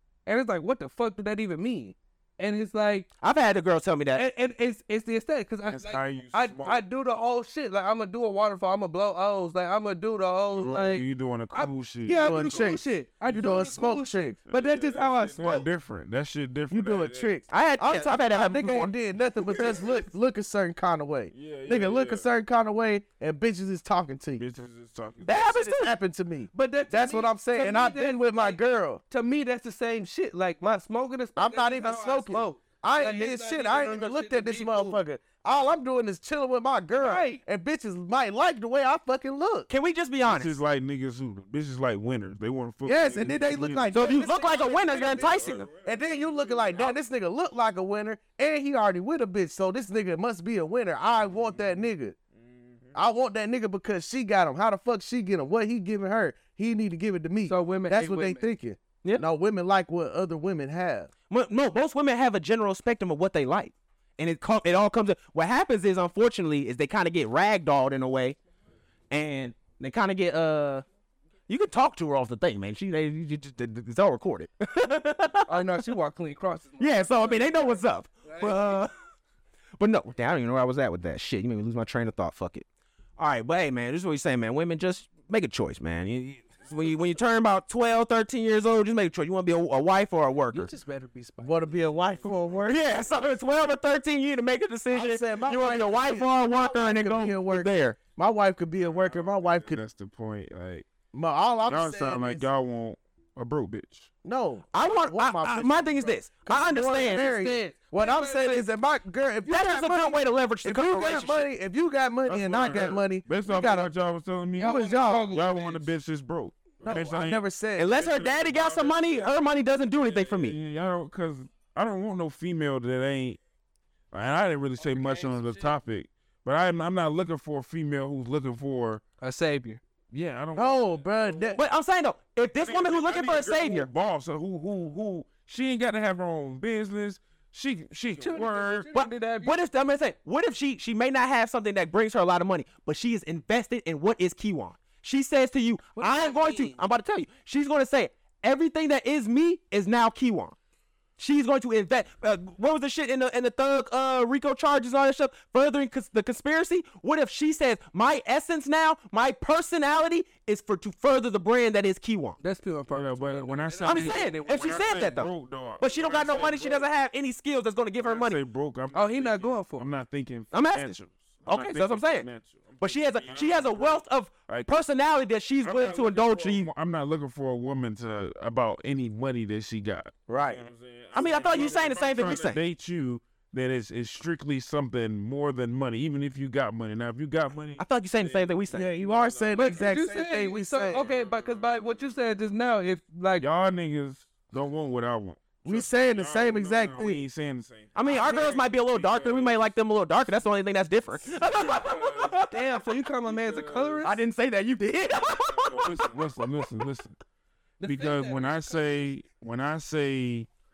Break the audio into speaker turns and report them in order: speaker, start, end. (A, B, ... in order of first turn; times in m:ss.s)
0:00.2-0:03.1 A
0:03.2-0:04.2 B
0:04.1-0:15.7 A
0:05.7-0:06.8 C
0:10.7-0:12.8 C
0:12.2-0:14.4 D
0:13.3-0:13.7 C
0:14.5-0:17.3 C
0:16.7-0:24.4 D
0:17.5-0:18.9 B
0:21.3-0:22.2 C
0:24.4-0:25.4 C
0:25.2-0:25.9 B
0:25.3-0:29.0 D
0:26.5-0:35.0 A
0:31.4-0:39.7 D
0:37.0-0:37.4 A
0:39.7-0:40.6 B
0:40.2-0:46.9 C
0:42.8-0:45.2 D
0:43.9-0:45.7 B
0:45.8-0:52.2 D
0:52.4-0:52.9 C
0:52.9-1:01.1 D
0:57.5-0:58.4 A
1:01.3-1:08.4 B
1:09.1-1:10.8 B
1:11.5-1:15.7 B
1:15.5-1:18.8 A
1:16.8-1:18.9 B
1:19.8-1:22.6 B
1:23.2-1:30.7 B
1:30.5-1:31.6 A
1:31.4-1:32.8 D
1:32.7-1:38.0 B
1:34.9-1:39.8 D
1:39.0-1:40.9 C
1:41.1-1:42.4 D
1:41.6-1:44.1 C
1:44.2-1:53.9 D
1:44.7-1:47.3 B
1:46.9-1:48.6 A
1:49.4-1:51.5 B
1:52.3-1:59.3 C
1:54.6-1:55.9 A
1:54.6-1:55.3 D
1:56.8-1:58.0 D
1:57.8-2:00.5 B
2:00.0-2:03.4 C
2:04.1-2:09.0 C
2:09.2-2:09.8 A
2:10.1-2:11.6 C
2:10.5-2:11.6 D
2:11.6-2:13.9 B
2:12.6-2:18.9 C
2:18.2-2:19.5 A
2:18.9-2:30.6 B
2:26.0-2:26.8 A
2:31.2-2:42.4 B
2:42.4-2:45.3 A
2:42.9-2:46.9 C
2:43.8-2:48.4 B
2:48.0-2:54.7 C
2:48.9-2:49.8 A
2:50.5-2:52.3 B
2:52.8-2:56.7 B
2:55.6-3:10.0 C
3:00.3-3:00.6 D
3:01.1-3:02.6 B
3:07.8-3:08.9 B
3:08.7-3:11.0 D
3:09.6-3:13.4 A
3:10.9-3:12.1 C
3:13.4-3:19.6 C
3:15.6-3:17.2 D
3:18.0-3:22.5 B
3:21.2-3:22.5 C
3:22.5-3:24.2 A
3:23.2-3:24.1 C
3:24.0-3:26.1 B
3:25.3-3:27.2 C
3:27.8-3:28.8 A
3:27.8-3:30.5 C